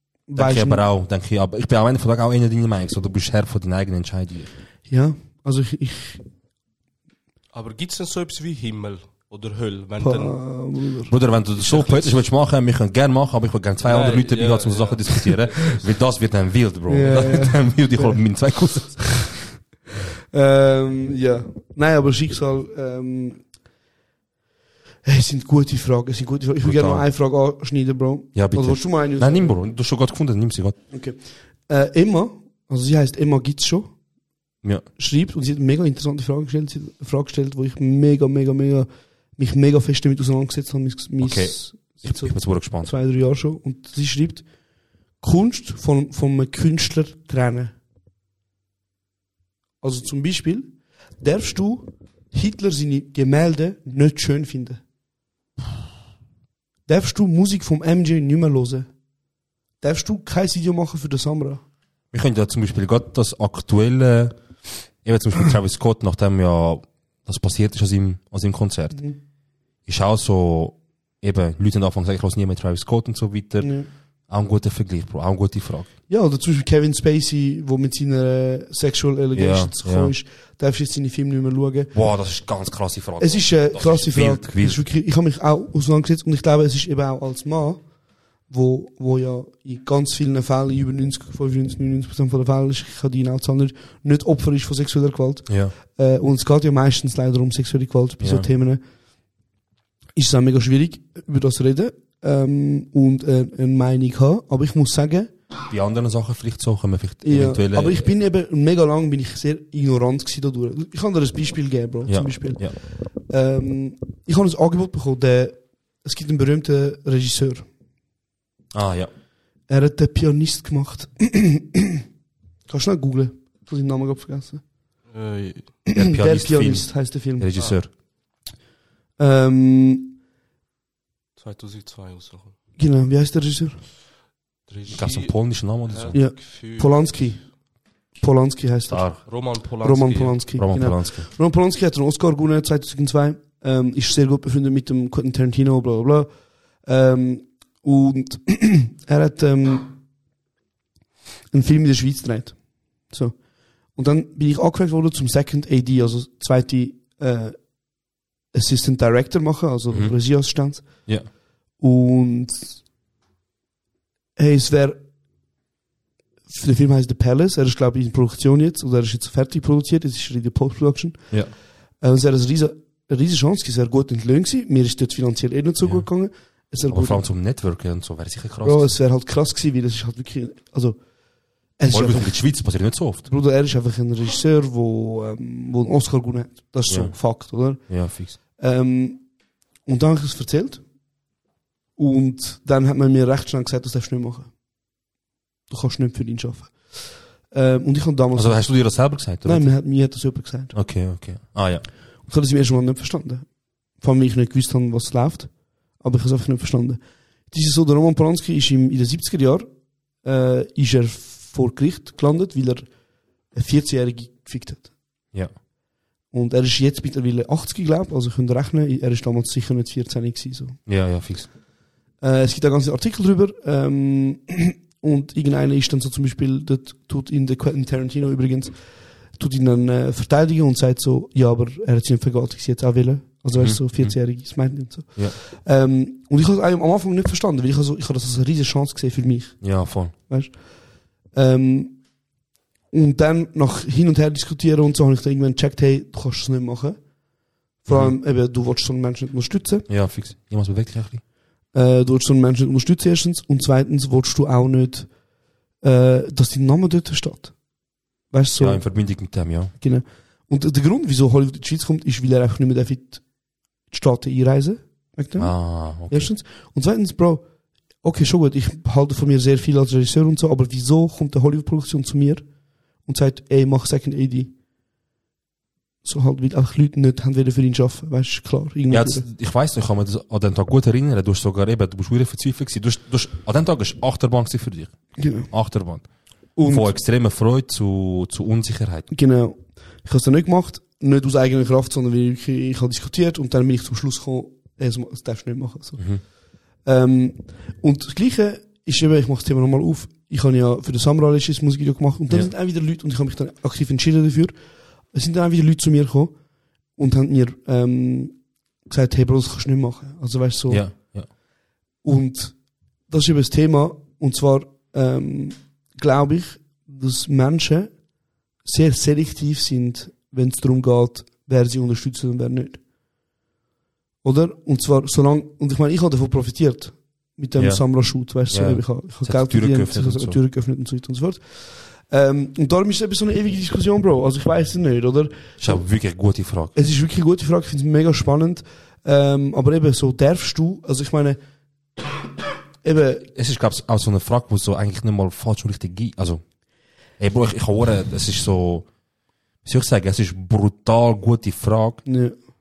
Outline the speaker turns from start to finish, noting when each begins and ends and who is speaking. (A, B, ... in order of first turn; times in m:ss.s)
0:00.3-0:00.8 A
0:00.4-0:04.5 B
0:04.9-0:06.2 A
0:07.5-0:10.4 C
0:10.0-0:11.1 A
0:11.1-0:19.3 B
0:11.6-0:12.2 C
0:13.8-0:15.8 C
0:16.9-0:18.2 A
0:20.3-0:23.4 A
0:25.0-0:29.5 A
0:26.6-0:27.0 B
0:28.3-0:30.8 B
0:30.9-0:33.9 A
0:35.0-0:44.4 A
0:41.2-0:42.9 B
0:45.2-0:47.7 A
0:49.8-0:54.8 A
0:56.9-0:58.9 A
0:59.8-1:01.6 A
1:02.1-1:04.4 B
1:05.0-1:09.0 B
1:08.9-1:09.2 A
1:09.8-1:13.7 B
1:13.6-1:13.9 A
1:14.3-1:15.9 B
1:16.1-1:21.9 A
1:19.3-1:20.1 B
1:21.9-1:24.8 B
1:23.2-1:27.8 A
1:28.5-1:38.8 A
1:35.5-1:35.7 B
1:38.2-1:38.5 B
1:40.1-1:45.3 A
1:45.7-1:48.1 B
1:47.2-1:57.7 A
1:52.0-1:52.8 B
1:58.7-1:59.1 B
1:59.7-2:02.0 A
2:02.7-2:04.6 A
2:05.1-2:05.8 C
2:05.9-2:07.5 A
2:05.9-2:07.9 B
2:09.2-2:10.2 A
2:11.4-2:12.5 C
2:12.8-2:13.8 A
2:14.7-2:15.3 C
2:14.9-2:16.2 B
2:15.9-2:17.1 C
2:16.1-2:17.4 A
2:18.2-2:19.2 A
2:18.9-2:19.2 B
2:19.2-2:20.4 C
2:19.8-2:26.3 A
2:20.6-2:21.3 B
2:26.8-2:29.9 A
2:31.5-2:32.6 A
2:33.1-2:33.4 A
2:33.9-2:37.6 A
2:38.5-2:40.8 A
2:39.9-2:40.2 B
2:41.8-2:42.8 A
2:44.4-2:45.0 A
2:46.5-2:51.2 A
2:52.0-2:57.2 A
2:55.8-2:56.1 B
2:56.9-2:58.9 B
2:58.6-3:01.0 A
3:01.8-3:02.4 A
3:01.9-3:03.3 B
3:03.3-3:07.8 A
3:06.9-3:07.2 B
3:07.9-3:08.4 B
3:08.6-3:09.2 A
3:09.8-3:10.8 A
3:12.0-3:14.5 A
3:15.7-3:18.7 A
3:18.3-3:19.7 B
3:19.4-3:20.7 A
3:20.7-3:21.8 B
3:22.2-3:23.4 A
3:24.0-3:29.7 A
3:30.2-3:32.9 A
3:33.5-3:34.9 A
3:36.3-3:40.8 A
3:40.9-3:41.5 B
3:42.2-3:48.8 A
3:49.3-4:00.6 A
3:53.5-3:54.2 B
3:59.6-4:00.1 B
4:01.3-4:02.0 A
4:02.9-4:07.0 A
4:07.8-4:09.9 A
4:07.9-4:08.1 B
4:09.9-4:11.2 B
4:11.7-4:15.1 A
4:15.8-4:17.5 A
4:18.3-4:18.8 A
4:18.6-4:19.7 B
4:19.8-4:23.2 A
4:23.9-4:27.4 A
4:25.4-4:26.3 B
4:28.0-4:32.4 A
4:33.0-4:34.5 A
4:36.0-4:39.2 A
4:38.9-4:46.1 B
4:45.2-4:45.5 A
4:46.6-4:46.9 A
4:46.6-4:49.1 B
4:49.1-4:56.0 A
4:56.0-4:56.2 B
4:56.8-5:04.5 A
5:05.1-5:06.3 A
5:07.0-5:10.8 A
5:10.7-5:11.3 B
5:12.0-5:12.6 A
5:13.1-5:17.9 A
5:18.6-5:22.8 A
5:24.2-5:35.8 A
5:27.6-5:27.8 B
5:28.5-5:30.4 B
5:35.6-5:36.8 B
5:36.7-5:41.4 A
5:42.8-5:43.3 A
5:43.4-5:46.4 B
5:47.2-5:48.8 B
5:49.6-5:52.0 B
5:52.0-5:52.4 A